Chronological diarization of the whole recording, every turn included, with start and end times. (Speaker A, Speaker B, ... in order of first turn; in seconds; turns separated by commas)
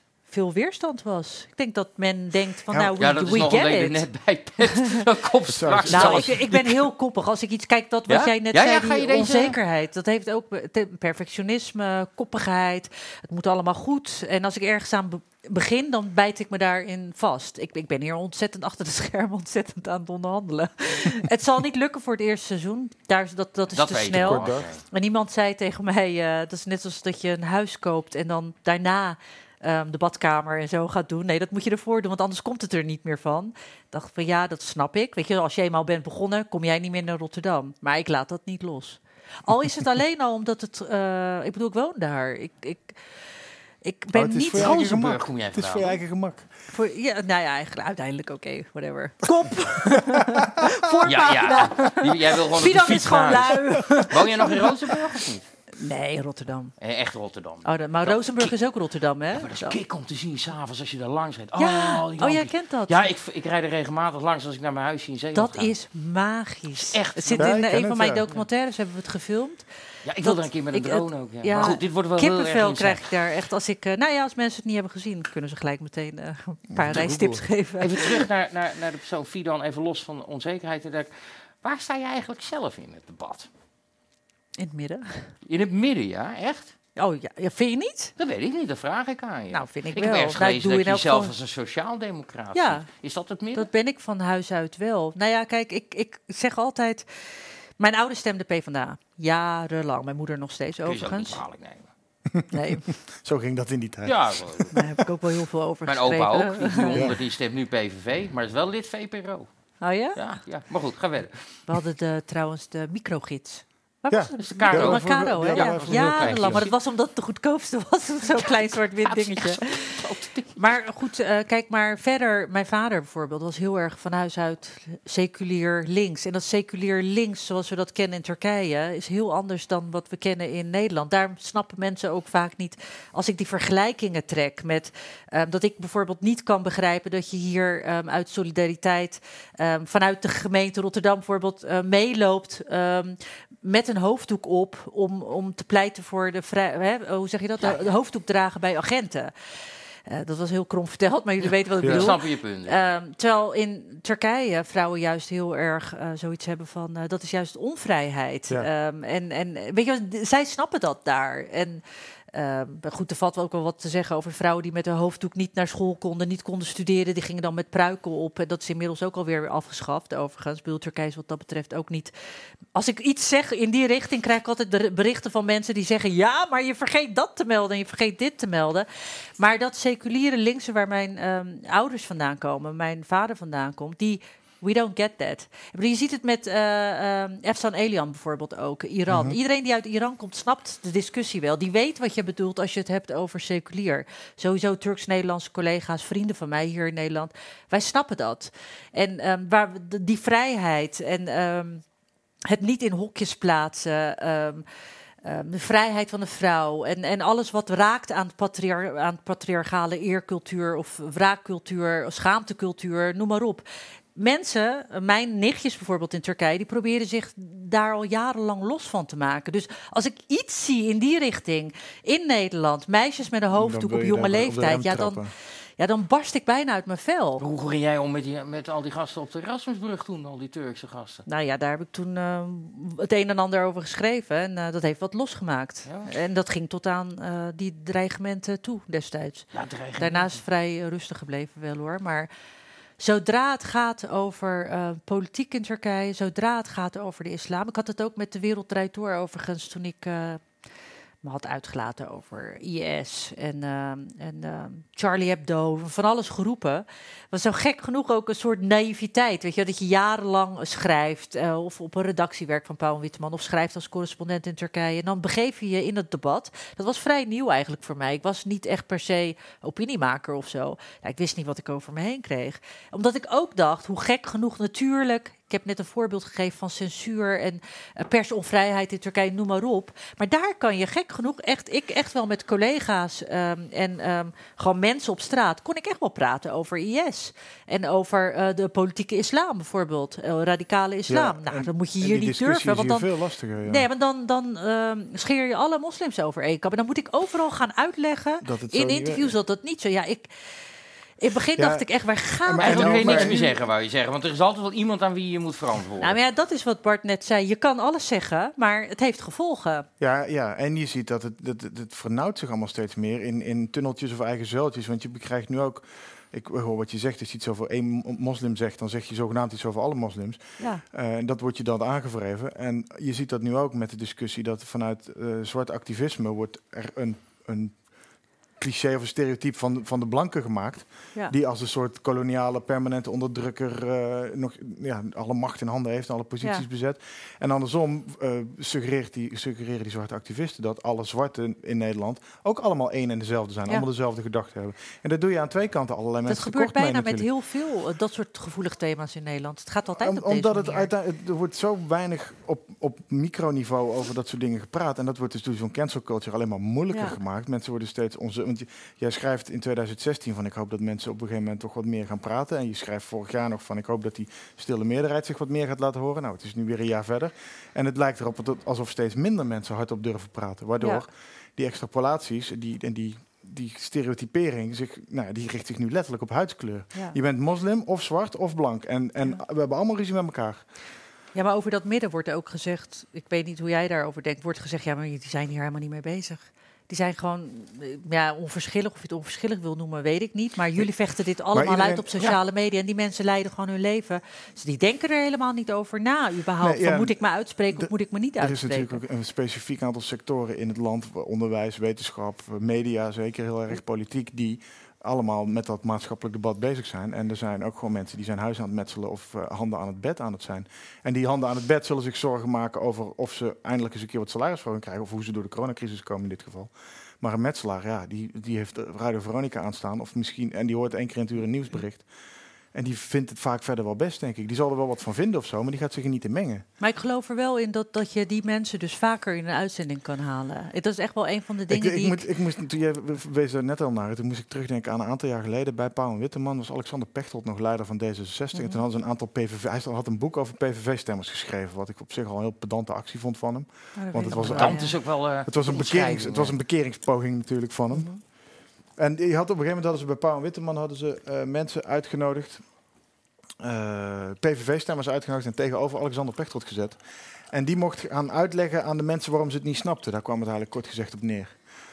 Speaker A: 0.3-4.0, Speaker B: 2.7-3.4, Speaker C: 3.0-6.7, Speaker B: 5.5-6.7, Speaker A: 5.9-43.0, Speaker C: 8.1-9.6, Speaker C: 23.7-24.8, Speaker B: 24.1-24.7, Speaker A: 43.8-44.7, Speaker B: 44.1-46.5, Speaker C: 44.5-46.0, Speaker A: 46.7-54.7, Speaker B: 49.8-50.3, Speaker B: 51.0-51.3, Speaker C: 51.0-55.5, Speaker B: 54.0-54.5, Speaker A: 55.8-56.7, Speaker C: 56.8-58.5, Speaker A: 57.6-59.8, Speaker C: 59.3-65.7, Speaker A: 61.6-63.0, Speaker A: 65.3-69.6, Speaker C: 66.7-67.5, Speaker B: 67.3-68.2, Speaker C: 70.0-73.1, Speaker A: 70.2-78.1, Speaker B: 76.7-77.4, Speaker C: 77.8-81.1, Speaker C: 81.6-83.5, Speaker A: 84.6-85.3, Speaker C: 85.5-86.7, Speaker A: 87.0-88.1, Speaker C: 88.2-93.7, Speaker A: 89.5-91.3, Speaker A: 92.5-92.8, Speaker A: 93.5-101.4, Speaker C: 100.8-101.9, Speaker A: 102.5-102.8, Speaker B: 103.2-104.9, Speaker C: 104.0-104.7, Speaker A: 104.7-107.0, Speaker C: 105.8-109.5, Speaker B: 106.9-107.2, Speaker A: 109.8-110.4, Speaker C: 110.1-111.4, Speaker A: 111.7-119.6, Speaker B: 114.1-116.7, Speaker C: 114.4-116.7, Speaker C: 118.3-120.8, Speaker A: 120.6-149.3, Speaker A: 150.1-161.8, Speaker C: 151.8-152.9, Speaker B: 151.8-152.1, Speaker A: 162.3-172.1, Speaker A: 172.7-178.9, Speaker A: 179.4-201.8, Speaker B: 189.1-189.4, Speaker A: 202.5-204.6, Speaker A: 205.2-213.6, Speaker A: 214.2-225.2, Speaker B: 223.5-225.3, Speaker A: 225.8-227.4, Speaker C: 227.4-231.2, Speaker A: 231.2-242.3, Speaker C: 239.5-240.4, Speaker A: 243.0-250.4, Speaker A: 251.2-293.1, Speaker B: 291.1-293.9, Speaker A: 293.6-300.3, Speaker B: 298.4-299.4, Speaker A: 301.2-303.5, Speaker B: 301.6-301.9, Speaker B: 302.4-303.4, Speaker C: 302.6-306.1, Speaker A: 306.0-309.9, Speaker B: 310.0-327.8, Speaker A: 320.6-320.8, Speaker B: 328.6-347.3, Speaker A: 336.4-336.6, Speaker A: 346.3-350.9, Speaker B: 350.0-380.7, Speaker A: 356.9-357.2, Speaker A: 370.8-371.1, Speaker A: 381.3-399.0, Speaker B: 391.5-392.1, Speaker B: 396.6-397.2, Speaker B: 397.7-422.1, Speaker B: 422.7-426.6, Speaker A: 426.8-432.2, Speaker B: 431.7-448.3, Speaker A: 438.5-438.8, Speaker A: 444.0-444.9, Speaker C: 444.4-446.6, Speaker A: 447.9-448.2, Speaker B: 448.9-452.7, Speaker B: 453.6-461.6